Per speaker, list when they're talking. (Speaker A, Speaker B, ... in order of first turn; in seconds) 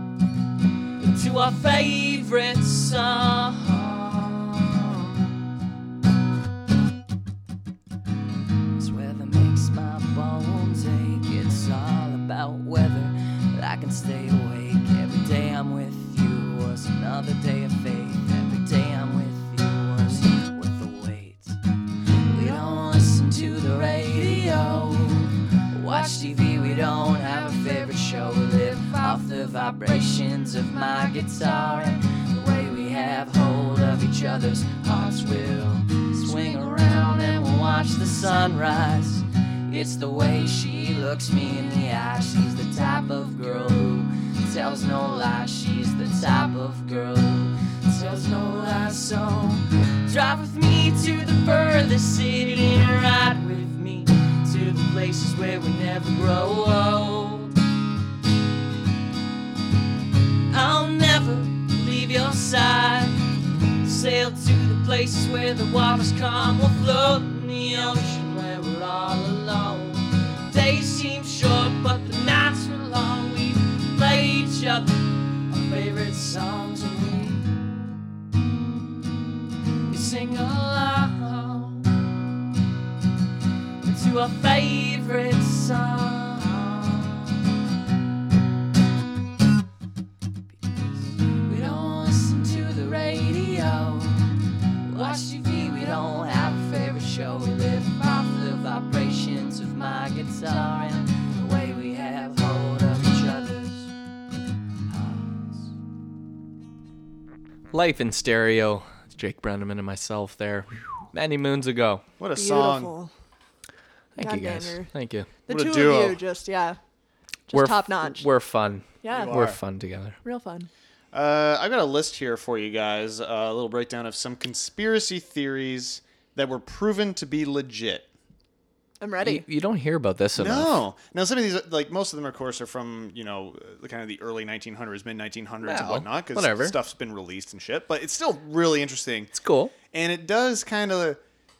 Speaker A: 1.0-5.1, 8.8-21.6, 22.2-57.5, 60.5-63.2, 63.8-77.4, 79.8-81.9, 83.8-87.4, 90.5-94.3, 94.8-103.9, 104.9-105.7
Speaker B: 107.7-112.0, 114.1-115.3, 117.5-120.2, 129.2-130.8, 135.6-136.8, 139.3-139.7
Speaker C: 112.2-112.9, 115.5-116.2, 119.1-119.6, 121.1-128.1, 130.4-139.3, 139.9-141.2
Speaker D: 112.3-113.1, 114.2-114.9, 115.5-116.8, 117.5-118.3, 119.0-119.3, 120.2-120.7, 129.0-129.4